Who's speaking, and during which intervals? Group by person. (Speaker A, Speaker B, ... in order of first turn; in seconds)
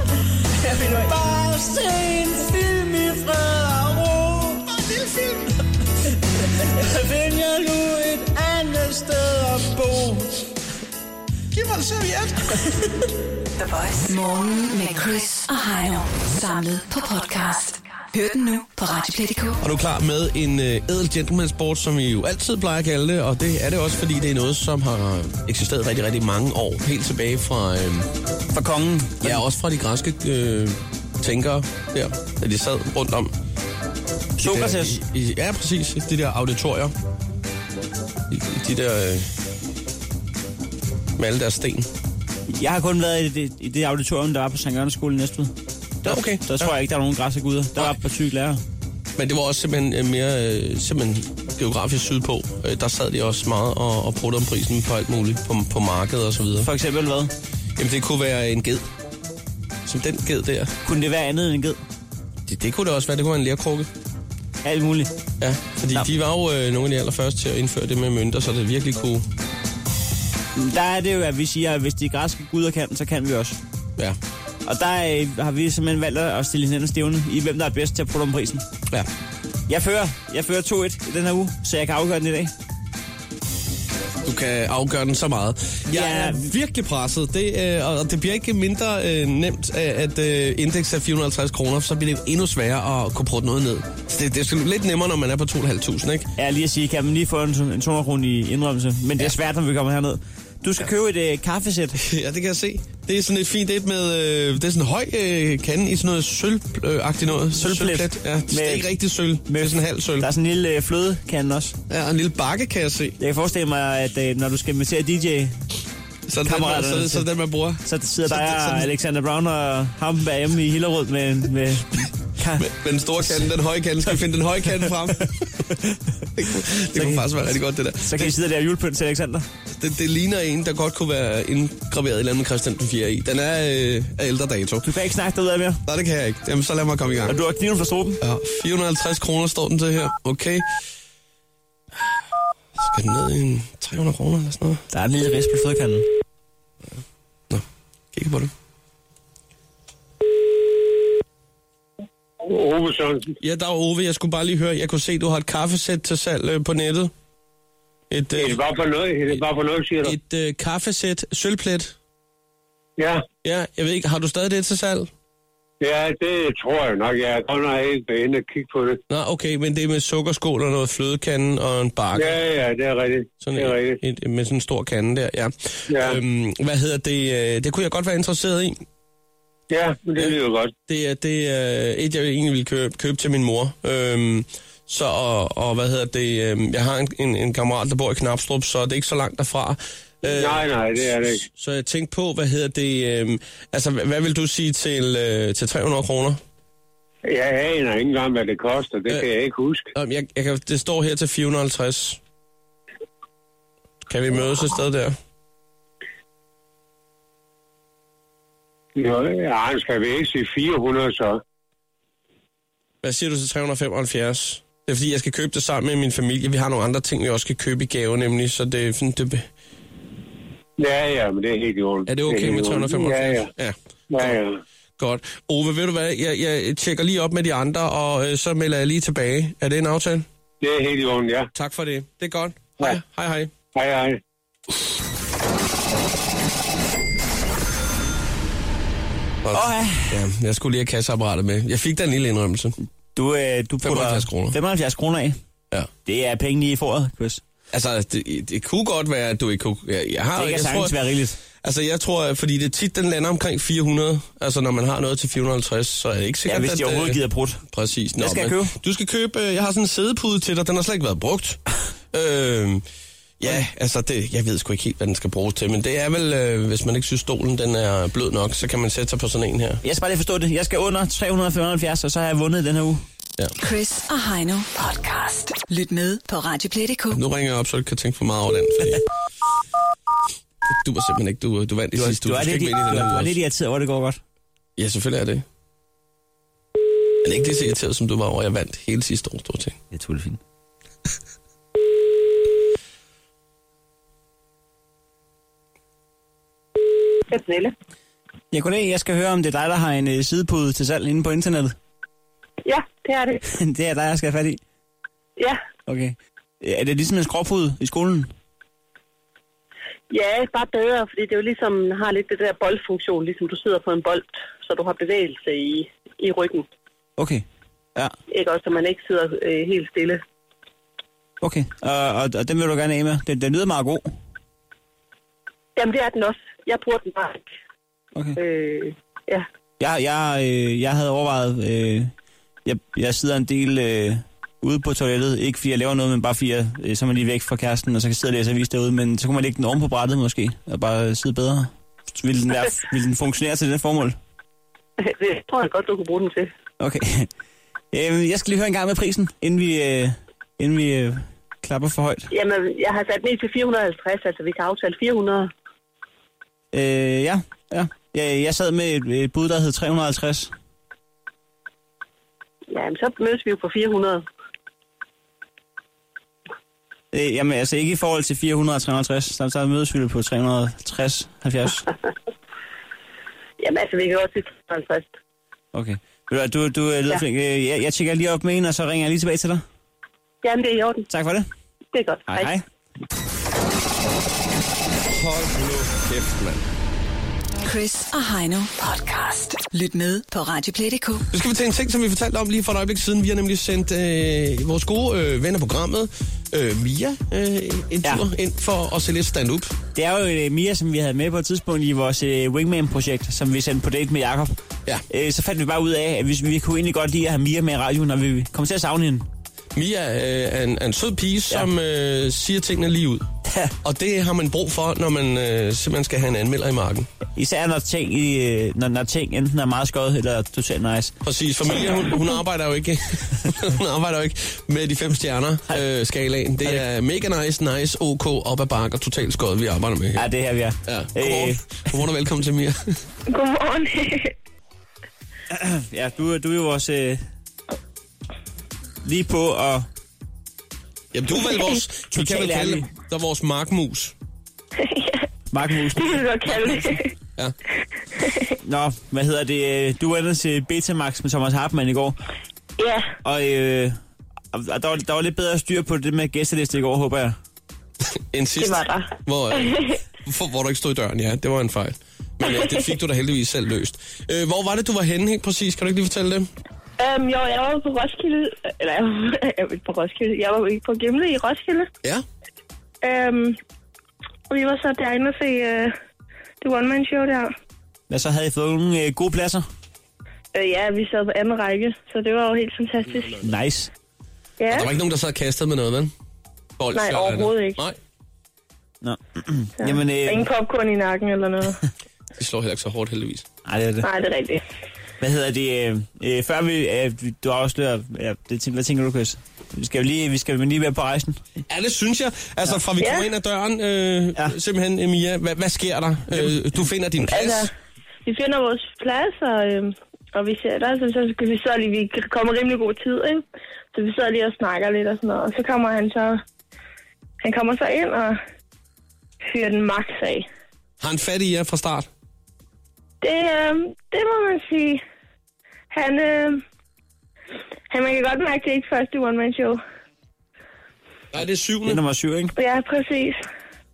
Speaker A: 0.6-5.5, 6.7-10.4, 11.5-12.3
Speaker B: 13.6-19.6, 273.6-277.2, 387.6-391.3
Speaker C: 19.6-28.1, 29.2-33.3, 34.4-36.9, 38.3-39.3, 41.2-41.9, 46.0-46.7, 49.1-56.7, 57.8-58.9, 59.8-60.7, 62.5-63.9, 65.4-69.2, 84.2-96.3, 102.0-110.3, 111.9-113.2, 116.3-118.9, 122.6-125.4, 126.3-128.3, 129.7-134.9, 135.8-137.4, 138.2-140.7, 142.7-144.8, 147.5-148.5, 153.4-157.1, 158.1-158.6, 160.0-161.9, 163.4-165.1, 169.1-172.4, 173.4-178.8, 180.9-196.4, 199.9-202.2, 204.0-205.2, 213.0-219.5, 222.1-224.4, 225.0-230.2, 231.5-233.5, 239.4-242.8, 243.8-244.6, 247.7-251.0, 251.6-257.2, 257.7-261.6, 262.1-262.8, 263.4-269.8, 277.1-279.0, 280.7-283.3, 284.8-285.4, 287.2-289.8, 385.1-386.6, 391.3-399.7, 409.7-413.3, 413.8-417.1, 421.2-430.3, 430.8-433.0, 441.1-444.1, 458.3-466.5, 484.7-486.1, 486.8-488.0, 492.4-493.4, 501.7-507.7, 521.0-522.1, 531.3-532.0
Speaker D: 28.5-29.4, 34.4-35.0, 42.5-45.5, 46.0-48.6, 56.6-57.3, 60.8-61.8, 64.6-65.1, 70.5-73.6, 74.7-78.7, 79.7-82.5, 85.9-86.5, 96.4-102.0, 107.5-108.9, 109.5-111.8, 113.2-115.5, 116.4-117.3, 117.8-122.7, 126.9-127.2, 128.0-129.5, 134.8-135.8, 137.3-138.2, 144.9-146.1, 239.5-240.2, 243.1-245.4, 246.0-247.4, 250.3-251.4, 256.5-257.6, 258.2-258.7, 269.8-273.0, 281.9-284.2, 289.9-290.4, 298.5-301.7, 303.5-304.6, 305.9-308.3, 317.2-317.4, 321.4-324.1, 329.8-332.1, 332.6-344.2, 346.8-347.3, 347.9-352.3, 356.7-360.5, 367.1-371.9, 375.7-379.6, 381.1-381.5, 382.3-382.6, 399.9-404.6, 405.1-409.2, 413.4-413.7, 417.4-421.1, 430.1-431.8, 435.5-437.2, 439.0-439.9, 442.1-442.9, 445.5-446.9, 448.6-452.2, 453.2-454.0, 454.5-457.4, 478.1-479.6, 483.4-483.9, 489.0-490.4, 493.6-494.1, 495.2-501.4, 531.9-532.5
Speaker E: 152.4-153.3, 158.4-160.1, 163.0-163.2, 165.8-169.0, 172.2-174.0, 175.9-176.2, 179.7-180.7, 190.2-191.4, 197.2-199.8, 208.9-211.4, 220.8-223.5, 224.1-224.6, 230.6-231.5, 233.7-234.2
Speaker F: 297.3-297.7, 302.6-303.4, 310.1-316.7, 318.3-320.2, 325.8-327.5, 328.4-329.4, 345.0-346.5, 352.3-355.5, 362.7-364.2, 373.6-375.1, 380.4-381.1, 381.9-382.5
Speaker G: 433.3-434.3, 444.8-445.2, 445.9-447.1, 448.2-448.5, 452.8-453.1, 458.6-460.0, 462.4-462.8, 467.0-471.9, 473.0-473.6, 474.5-475.9, 476.6-477.5, 480.5-483.4, 484.6-484.9, 486.9-487.8, 489.8-491.8, 494.0-494.6, 503.0-503.3, 507.2-507.7, 508.2-516.4, 517.4-518.4, 519.5-520.5, 523.2-525.0, 525.9-526.6, 527.9-529.8, 532.5-533.4